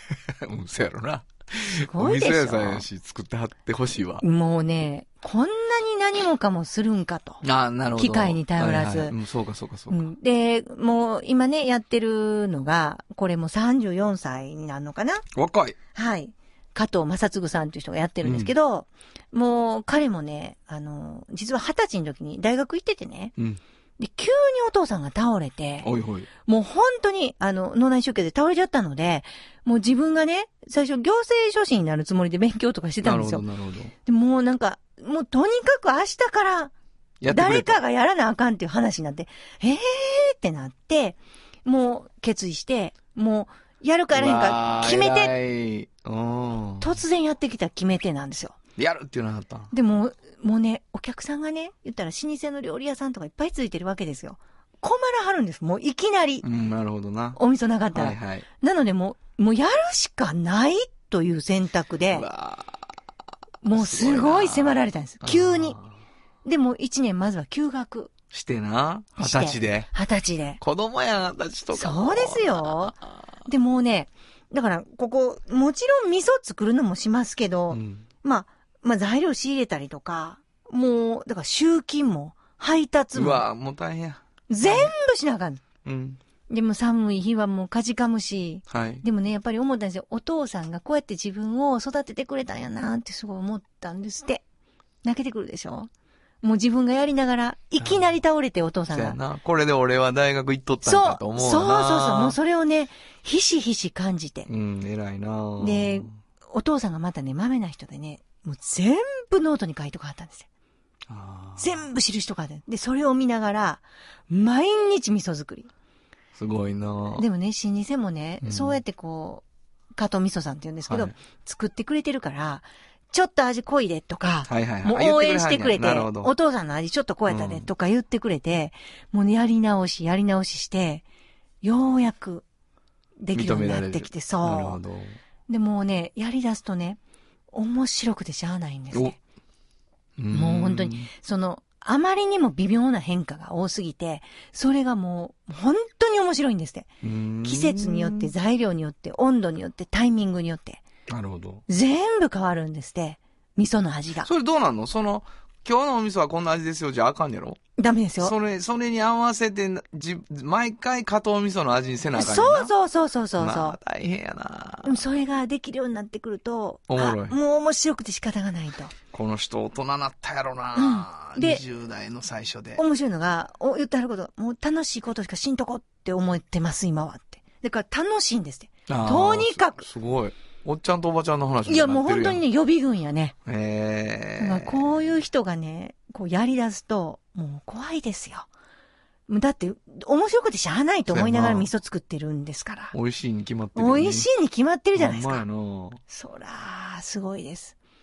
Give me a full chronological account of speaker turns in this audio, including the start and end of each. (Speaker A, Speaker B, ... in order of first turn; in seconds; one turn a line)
Speaker A: 0.4-4.2
Speaker B: 1.8-2.9
Speaker B: 4.2-7.4
Speaker A: 7.4-10.0
Speaker B: 8.0-9.2
Speaker B: 9.9-15.2
Speaker A: 15.3-15.8
Speaker B: 15.9-23.3
Speaker A: 18.2-18.5
Speaker B: 24.0-25.9
Speaker A: 25.8-26.3
Speaker B: 26.5-33.4
Speaker A: 33.0-33.9
Speaker B: 34.1-36.7
Speaker A: 37.2-37.8
Speaker B: 37.3-45.3
Speaker A: 44.1-47.0
Speaker B: 46.8-48.6
Speaker A: 48.8-49.7
Speaker B: 49.7-56.5
Speaker A: 56.4-57.4
Speaker B: 57.4-62.3
Speaker A: 57.9-58.5
Speaker A: 62.1-62.8
Speaker B: 63.6-65.8
Speaker A: 63.7-65.9
Speaker B: 66.5-68.1
Speaker A: 68.3-69.9
Speaker B: 69.2-70.6
Speaker A: 70.6-73.0
Speaker B: 71.7-83.5
Speaker A: 77.7-78.1
Speaker A: 83.2-84.9
Speaker B: 84.5-85.6
Speaker A: 85.8-86.2
Speaker B: 86.5-94.4
Speaker A: 88.7-89.0
Speaker B: 95.0-95.9
Speaker B: 96.4-99.2
Speaker A: 98.9-102.4
Speaker B: 100.8-104.5
Speaker A: 104.5-106.2
Speaker B: 105.6-110.5
Speaker A: 111.1-111.8
Speaker B: 111.6-115.7
Speaker A: 116.3-117.3
Speaker B: 117.2-131.1
Speaker A: 118.4-118.8
Speaker A: 120.9-121.1
Speaker A: 124.5-126.3
Speaker A: 127.3-127.7
Speaker B: 131.6-132.4
Speaker B: 133.2-134.8
Speaker A: 133.3-135.2
Speaker B: 135.5-137.0
Speaker B: 137.5-139.2
Speaker A: 140.2-141.1
Speaker B: 140.3-146.9
Speaker A: 147.0-148.3
Speaker B: 147.4-150.8
Speaker A: 151.1-151.6
Speaker B: 151.7-154.3
Speaker A: 154.2-157.6
Speaker B: 157.8-158.3
Speaker A: 158.2-162.7
Speaker B: 162.2-163.8
Speaker A: 163.4-165.0
Speaker B: 164.8-168.9
Speaker A: 166.9-167.4
Speaker A: 169.1-172.8
Speaker B: 170.8-171.6
Speaker B: 172.8-179.8
Speaker A: 178.9-182.4
Speaker B: 181.7-183.3
Speaker A: 183.5-185.1
Speaker B: 184.4-188.5
Speaker B: 189.3-192.9
Speaker A: 191.1-191.7
Speaker A: 192.9-194.3
Speaker B: 193.8-195.4
Speaker A: 194.9-196.0
Speaker B: 196.1-197.8